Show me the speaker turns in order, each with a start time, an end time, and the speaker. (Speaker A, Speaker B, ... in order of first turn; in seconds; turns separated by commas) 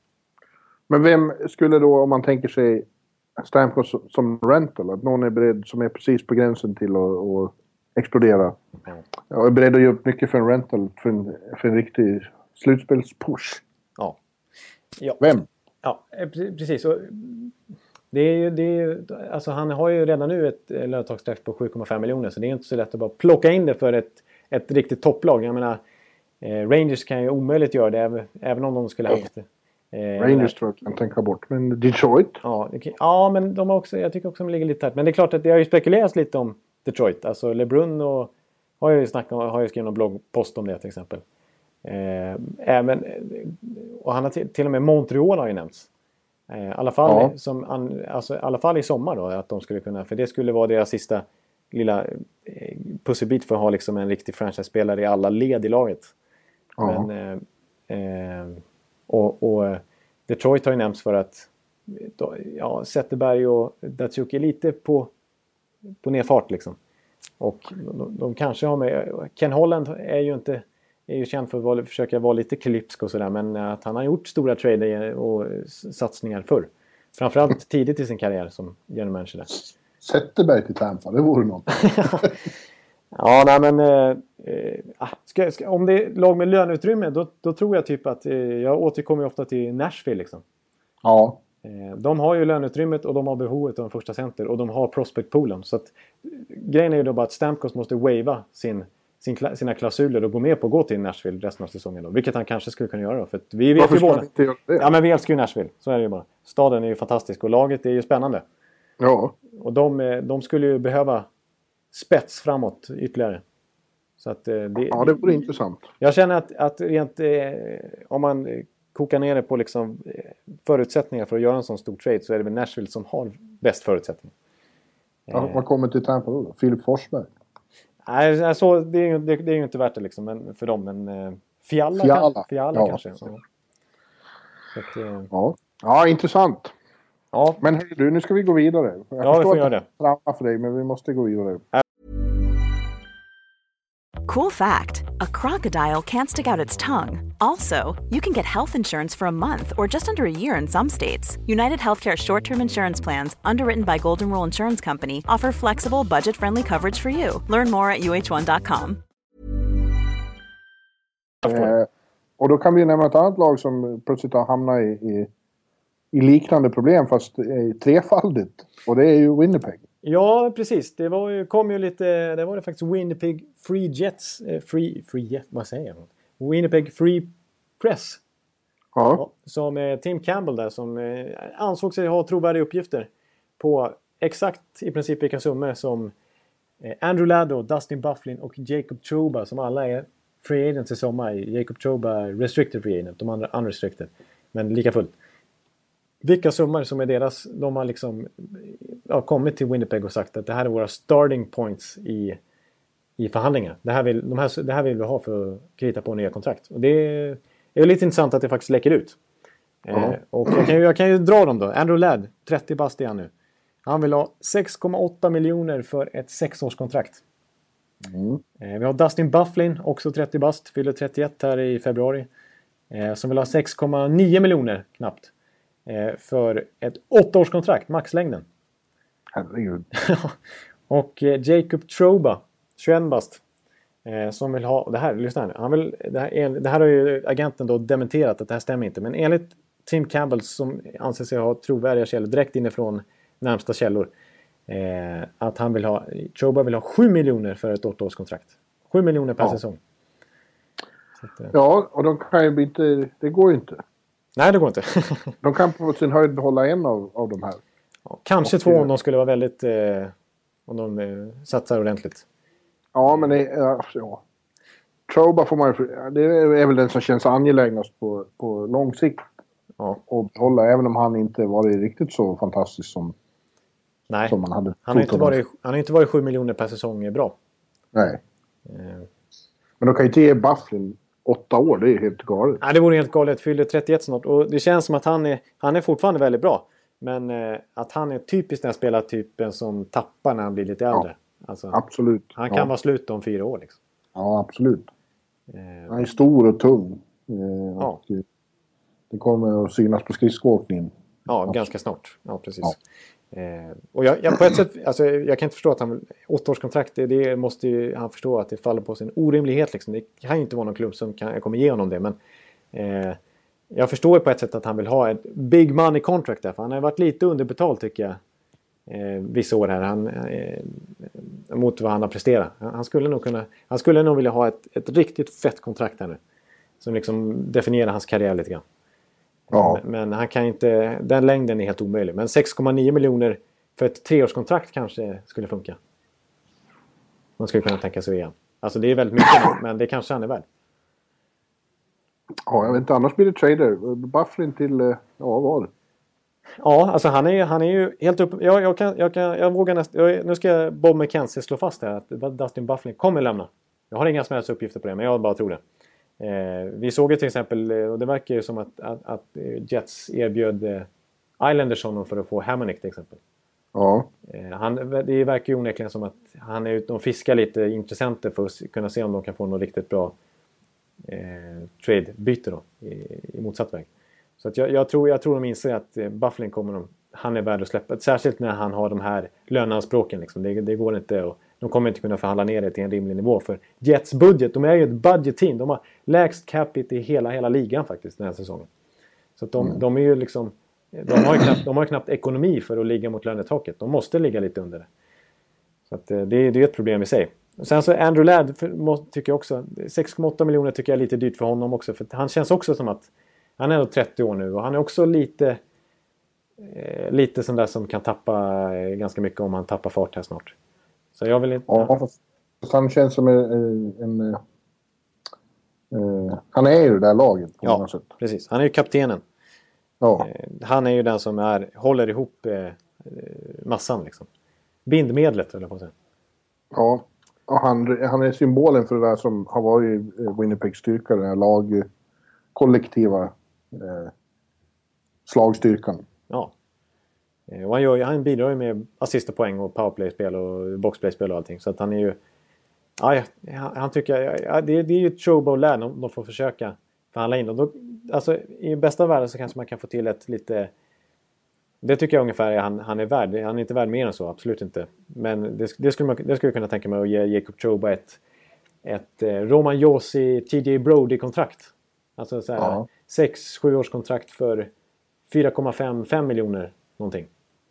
Speaker A: 0.9-2.9, Speaker A: 3.4-8.6, Speaker A: 9.3-13.6, Speaker B: 15.0-15.3, Speaker A: 15.2-15.4, Speaker B: 15.8-17.5, Speaker B: 18.1-25.8, Speaker B: 26.4-30.5, Speaker A: 30.2-32.4, Speaker B: 32.4-41.2, Speaker B: 41.8-45.9, Speaker B: 46.5-56.1, Speaker A: 47.0-47.3, Speaker A: 56.8-57.1, Speaker B: 56.8-65.1, Speaker B: 66.0-66.8, Speaker B: 67.4-79.5, Speaker A: 80.0-82.3, Speaker B: 81.9-82.3, Speaker B: 83.1-90.4, Speaker A: 91.0-91.4, Speaker B: 91.6-108.4, Speaker A: 103.8-104.9, Speaker A: 109.0-109.3, Speaker B: 109.5-111.3, Speaker B: 111.9-113.4, Speaker B: 114.2-115.4, Speaker A: 114.9-115.9, Speaker B: 116.0-124.3, Speaker B: 125.3-125.6, Speaker A: 125.3-127.3, Speaker B: 128.1-133.4, Speaker A: 132.0-133.0, Speaker B: 134.7-135.3, Speaker A: 135.3-136.7, Speaker B: 137.3-137.6, Speaker A: 137.6-141.6, Speaker B: 139.2-139.9, Speaker C: 144.3-159.0, Speaker B: 161.4-161.7, Speaker A: 161.4-161.9, Speaker A: 162.4-165.3, Speaker A: 166.1-169.8, Speaker B: 170.0-178.2, Speaker A: 178.9-179.2, Speaker B: 179.2-186.1, Speaker B: 186.8-195.1, Speaker B: 196.2-202.4, Speaker B: 203.2-209.2, Speaker B: 209.8-213.3, Speaker A: 209.9-210.2, Speaker B: 213.8-217.2, Speaker A: 218.0-218.4, Speaker B: 218.6-222.3, Speaker B: 222.9-225.3, Speaker B: 225.8-228.4, Speaker A: 229.3-229.9, Speaker B: 230.0-230.3, Speaker B: 230.9-233.4, Speaker B: 234.0-244.1, Speaker B: 244.7-249.8, Speaker B: 251.3-251.5, Speaker A: 251.5-253.8, Speaker B: 254.3-255.3, Speaker A: 255.4-257.6, Speaker B: 258.1-260.1, Speaker A: 258.4-258.9, Speaker B: 260.7-262.2, Speaker A: 262.9-264.2, Speaker A: 265.1-269.2, Speaker A: 270.1-273.1, Speaker B: 274.1-277.3, Speaker A: 274.3-275.4, Speaker A: 277.9-278.2, Speaker B: 278.7-279.1, Speaker A: 279.8-282.6, Speaker B: 282.6-291.8, Speaker A: 291.7-292.7, Speaker B: 292.3-293.8, Speaker A: 294.1-294.9, Speaker B: 295.5-295.9, Speaker A: 295.9-298.2, Speaker A: 299.1-300.9, Speaker B: 301.3-302.8, Speaker B: 303.3-312.1, Speaker B: 312.7-313.2, Speaker B: 313.7-318.2, Speaker B: 318.9-326.2, Speaker B: 326.8-328.6, Speaker A: 329.5-329.8, Speaker B: 329.5-335.8, Speaker B: 337.4-340.4, Speaker A: 342.5-345.7, Speaker B: 346.6-355.6, Speaker B: 356.2-360.9, Speaker B: 361.4-363.2, Speaker A: 363.7-364.1, Speaker B: 364.3-370.1, Speaker B: 371.0-373.9, Speaker B: 374.4-388.7, Speaker B: 389.4-394.9, Speaker B: 395.9-405.6, Speaker B: 406.6-410.5, Speaker B: 411.1-412.0, Speaker A: 411.7-414.4, Speaker A: 415.9-418.1, Speaker B: 417.6-419.2, Speaker A: 420.0-420.3, Speaker B: 420.2-424.3, Speaker B: 424.9-425.9, Speaker A: 426.7-431.9, Speaker A: 432.5-434.1, Speaker A: 435.2-436.0, Speaker B: 437.5-442.2, Speaker B: 443.0-450.7, Speaker B: 451.8-458.2, Speaker B: 458.8-464.7, Speaker A: 462.6-462.9, Speaker B: 465.3-467.3